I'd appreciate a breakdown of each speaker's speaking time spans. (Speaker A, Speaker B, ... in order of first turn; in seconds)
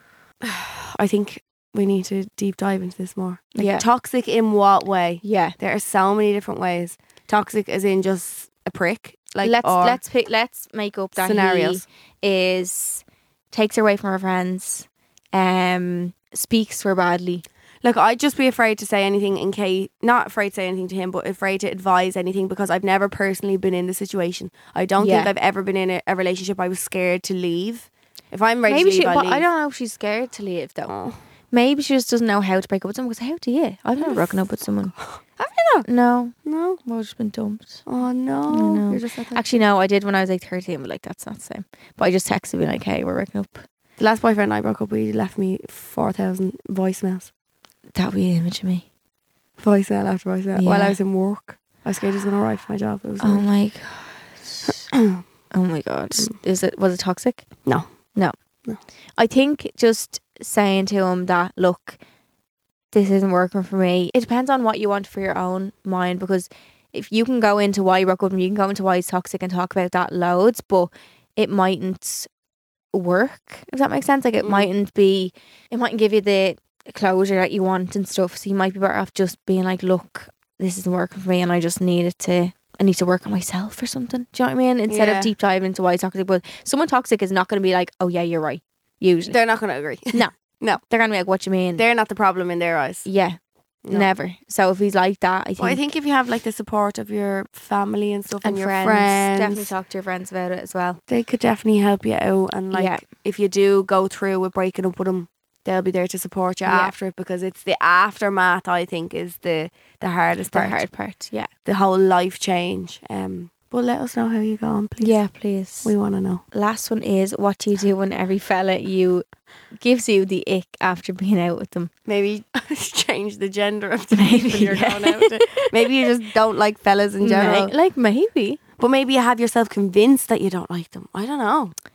Speaker A: 0.4-10.0, 11.2-11.8, 17.8-29.4, 30.9-31.2, 34.0-34.4, 35.0-35.9, 36.4-36.8, 37.9-39.6, 44.0-47.3, 49.6-53.5, 54.7-55.2, 74.4-74.7, 84.9-85.3, 89.3-90.8, 91.8-93.1, 93.8-94.1, 95.6-99.7, 101.1-110.8, 111.6-115.2, 115.8-116.4, 122.0-127.7, 128.8-131.7
Speaker B: 3.5-3.9, 5.2-5.5, 9.4-17.4, 25.0-25.3, 28.7-30.9, 31.5-34.9, 35.8-37.8, 38.5-43.6, 47.9-48.8, 50.5-51.0, 53.2-54.9, 55.5-57.5, 59.2-62.0, 62.9-72.3, 72.9-89.4, 90.1-91.8, 93.0-93.4, 93.9-95.8, 98.4-101.0, 102.7-103.0, 106.7-106.9, 110.5-111.5, 115.0-115.9, 116.5-121.9, 124.1-125.9, 127.2-128.6